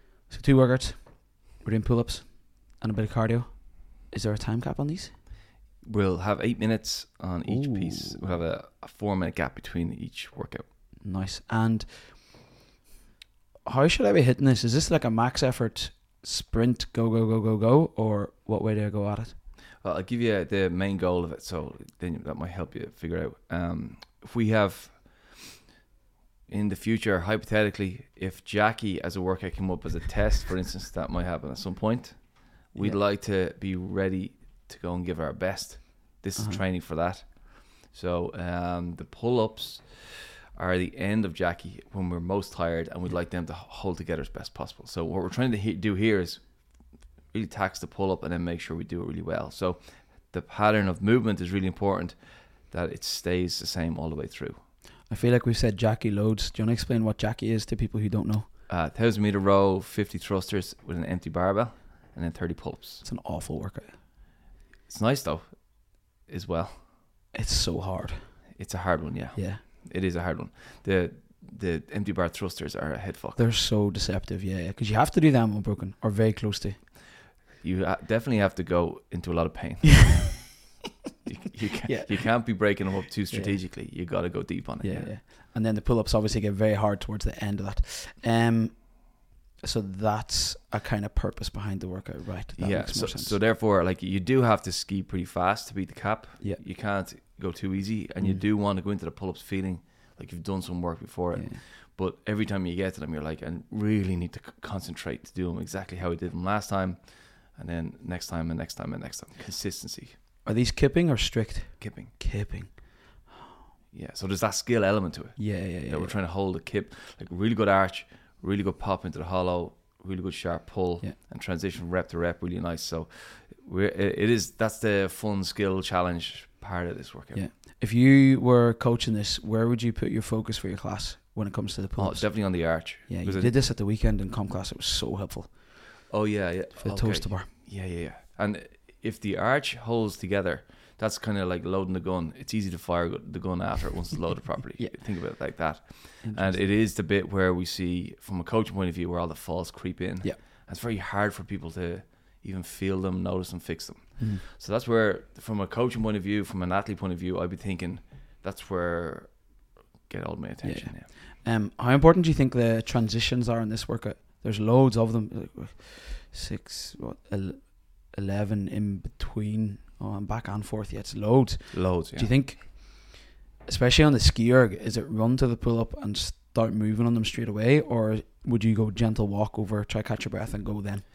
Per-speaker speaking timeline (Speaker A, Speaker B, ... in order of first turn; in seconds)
Speaker A: 0.3-5.1, 7.5-8.3, 11.0-12.4, 13.7-19.4, 36.4-36.6, 55.1-58.5, 63.0-64.0, 67.3-68.4, 69.3-69.6, 73.4-76.8, 81.9-84.1, 84.8-93.4, 101.3-101.6, 110.4-113.4, 115.4-116.2, 127.3-136.0, 136.8-137.5, 144.8-145.7, 146.2-146.7, 160.6-181.1
Speaker B: 5.8-10.7, 19.8-25.5, 26.5-46.6, 47.3-54.6, 58.7-63.0, 64.9-66.8, 68.6-73.4, 77.6-80.6, 81.2-85.1, 92.6-110.2, 111.8-112.1, 113.9-127.5, 132.0-133.6, 136.1-161.1, 171.7-172.3